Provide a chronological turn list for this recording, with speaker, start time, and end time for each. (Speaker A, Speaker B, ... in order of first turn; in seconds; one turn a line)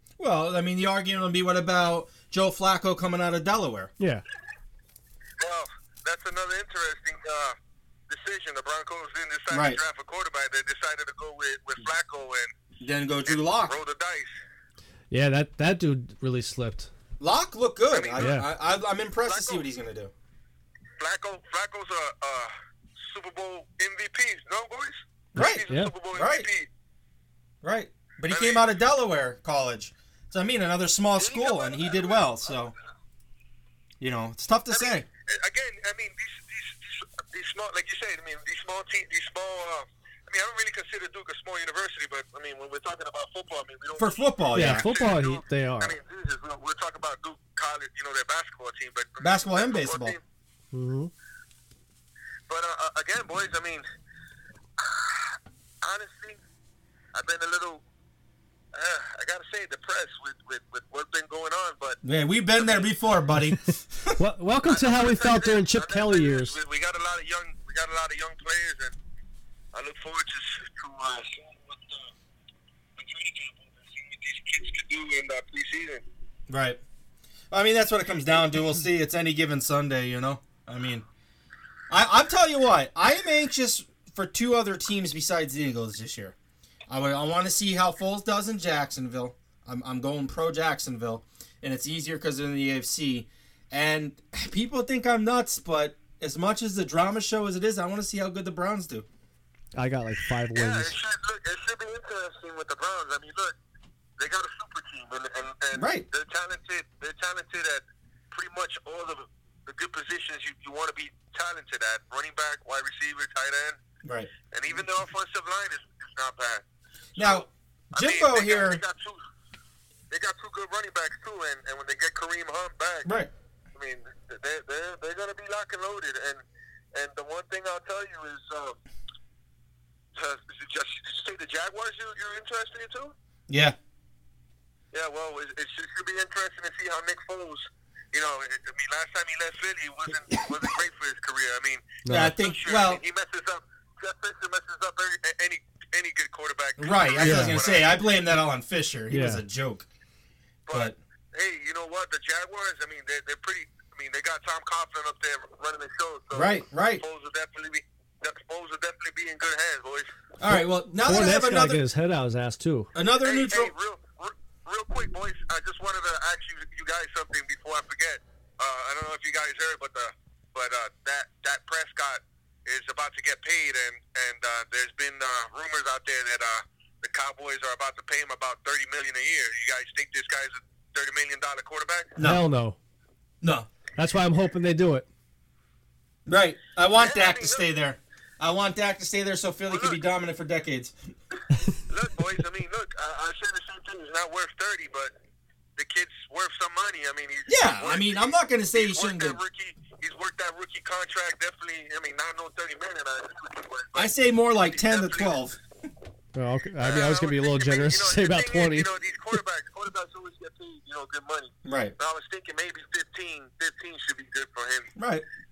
Speaker A: 0.2-3.9
Speaker B: 5.4-7.6
Speaker B: 8.1-12.5
Speaker A: 9.5-9.8
Speaker A: 12.8-13.8
Speaker B: 13.3-14.3
Speaker C: 15.1-16.9
Speaker A: 17.2-20.1
Speaker B: 17.9-18.4
Speaker C: 18.2-18.5
Speaker B: 19.2-19.6
Speaker B: 21.0-26.7
Speaker A: 25.3-26.5
Speaker A: 27.6-32.7
Speaker B: 28.3-28.6
Speaker B: 31.2-32.4
Speaker A: 34.0-35.0
Speaker B: 34.7-50.2
Speaker A: 44.0-44.9
Speaker C: 44.5-46.0
Speaker A: 49.2-50.2
Speaker C: 50.7-51.1
Speaker B: 52.5-53.9
Speaker B: 54.8-55.3
Speaker B: 55.8-56.4
Speaker B: 57.1-57.8
Speaker B: 58.7-62.0
Speaker A: 62.0-64.2
Speaker C: 64.2-66.5
Speaker B: 64.7-68.9
Speaker B: 69.7-72.1
Speaker B: 73.0-76.0
Speaker A: 76.5-76.8
Speaker A: 77.5-81.0
Speaker A: 81.9-86.3
Speaker A: 86.9-99.0
Speaker C: 99.8-101.0
Speaker B: 100.5-103.5
Speaker B: 104.2-113.8
Speaker A: 105.7-106.0
Speaker A: 114.0-114.3
Speaker B: 114.5-116.6
Speaker B: 117.2-119.2
Speaker A: 117.2-118.8
Speaker B: 120.1-123.1
Speaker A: 123.0-123.3
Speaker B: 123.7-126.4
Speaker B: 126.9-128.8
Speaker B: 130.1-133.1
Speaker A: 133.5-133.8
Speaker B: 134.9-148.0
Speaker C: 142.0-142.3
Speaker A: 142.1-143.0
Speaker A: 146.8-149.9
Speaker C: 147.2-147.6
Speaker C: 149.1-149.4
Speaker B: 150.7-160.1
Speaker A: 150.7-150.9
Speaker A: 156.3-157.0
Speaker A: 160.4-161.8
Speaker C: 161.0-162.9
Speaker A: 162.9-163.7
Speaker B: 163.2-182.2
Speaker A: 182.2-182.4
Speaker C: 182.2-182.8
Speaker A: 183.4-183.7
Speaker C: 183.9-185.1
Speaker A: 186.3-190.9
Speaker B: 187.0-187.7
Speaker B: 189.7-190.0
Speaker B: 191.9-195.1
Speaker B: 195.8-198.2
Speaker A: 197.5-199.4
Speaker B: 198.7-204.1
Speaker A: 203.9-205.6
Speaker B: 204.7-205.4
Speaker C: 206.3-208.9
Speaker B: 206.8-214.9
Speaker A: 211.6-211.9
Speaker A: 215.0-215.2